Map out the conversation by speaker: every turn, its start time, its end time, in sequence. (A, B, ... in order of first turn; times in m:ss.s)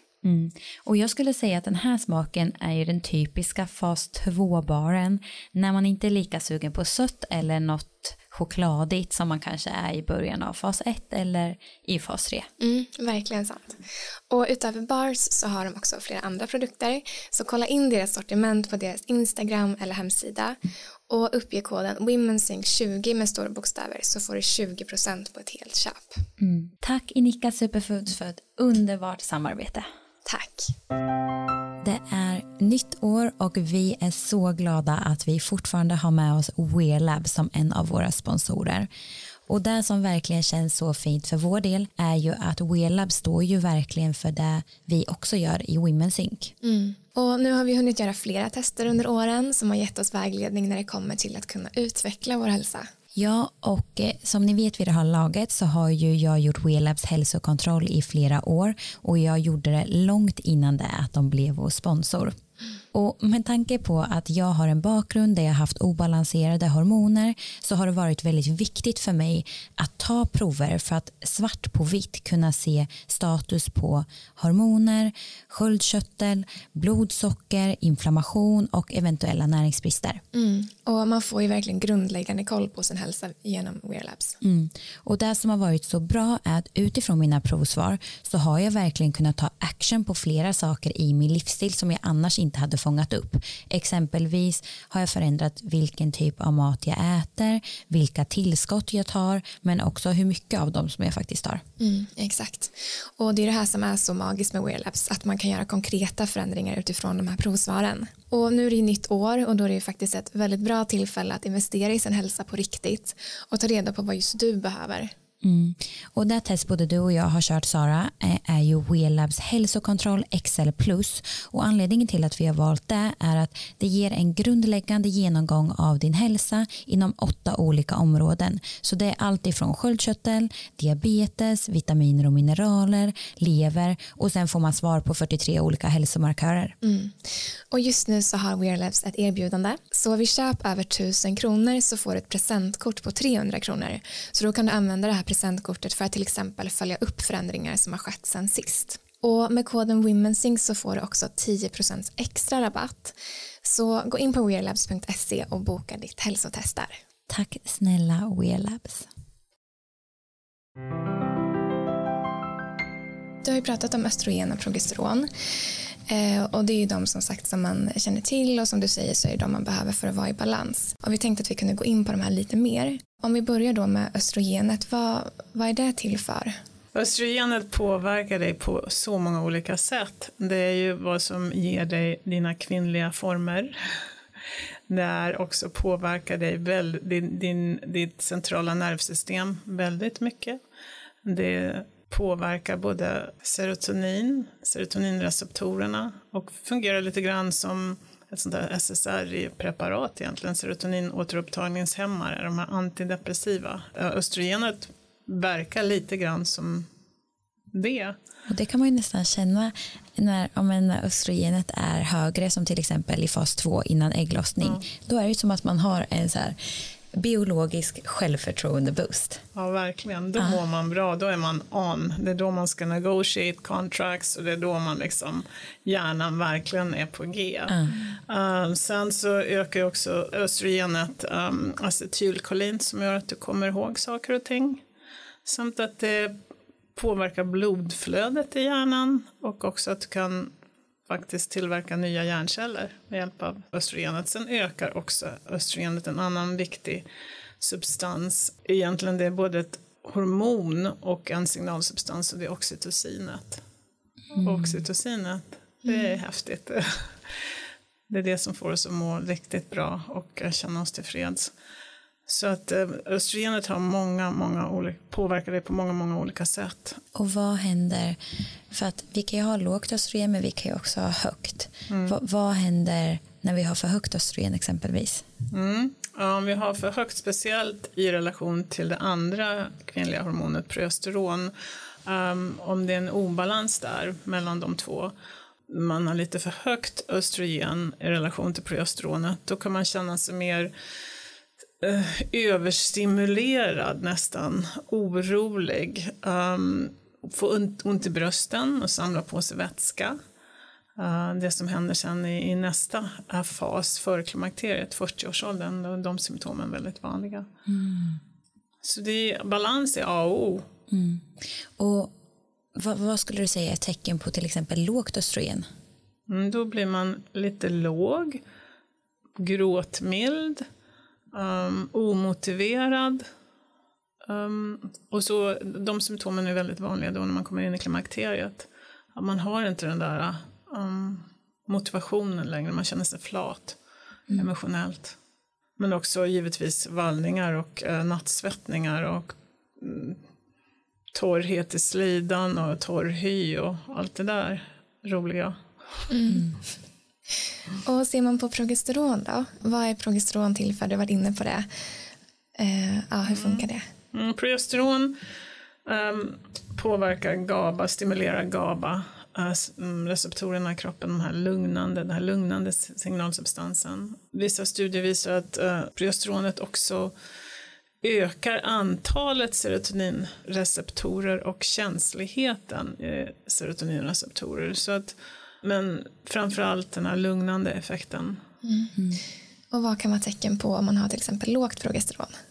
0:00.2-0:12.5 A
0:12.6-0:26.2 B
0:26.4-0:29.8 A
0:30.2-0:30.7 B
0:31.8-0:38.9 A
0:39.5-0:46.5 A
0:46.6-0:52.9 B
0:53.1-1:02.4 A
1:02.9-1:20.2 A
1:20.3-1:24.4 B
1:24.4-1:41.6 A
1:41.8-1:55.1 B
1:55.4-2:16.7 A
2:16.8-2:37.0 B
2:37.3-2:39.1 A
2:43.4-2:45.3 B
2:46.1-2:56.5 B
2:56.9-3:03.8 C
3:04.9-3:10.6 C
3:11.2-3:26.9 C
3:27.7-3:28.2 C
3:28.5-3:39.4 A
3:39.5-3:54.8 C
3:55.4-3:56.4 C
3:56.9-4:00.5 C
4:01.1-4:07.0 C
4:07.6-4:13.6 C
4:14.3-4:14.8 A
4:14.4-4:17.1 C
4:18.1-4:21.5 C
4:22.3-4:27.0 C
4:27.1-4:28.2 A
4:28.7-4:35.2 A
4:31.9-4:32.2 C
4:35.5-4:41.5 C
4:42.0-4:45.1 C
4:45.7-4:50.7 C
4:51.8-5:00.2 C
5:01.0-5:07.5 C
5:07.7-5:08.2 A
5:08.8-5:10.7 C
5:10.9-5:12.1 A
5:12.7-5:15.6 A
5:16.3-5:18.4 C
5:19.4-5:20.6 C
5:21.3-5:23.2 C
5:24.2-5:33.8 C
5:34.3-5:35.2 C
5:35.8-5:40.2 C
5:41.1-5:46.1 C
5:46.1-5:46.5 B
5:47.8-5:51.7 B
5:52.6-5:53.8 B
5:53.3-5:55.2 C
5:55.8-6:07.1 C
6:08.0-6:18.4 C
6:18.6-6:19.2 B
6:19.7-6:22.3 B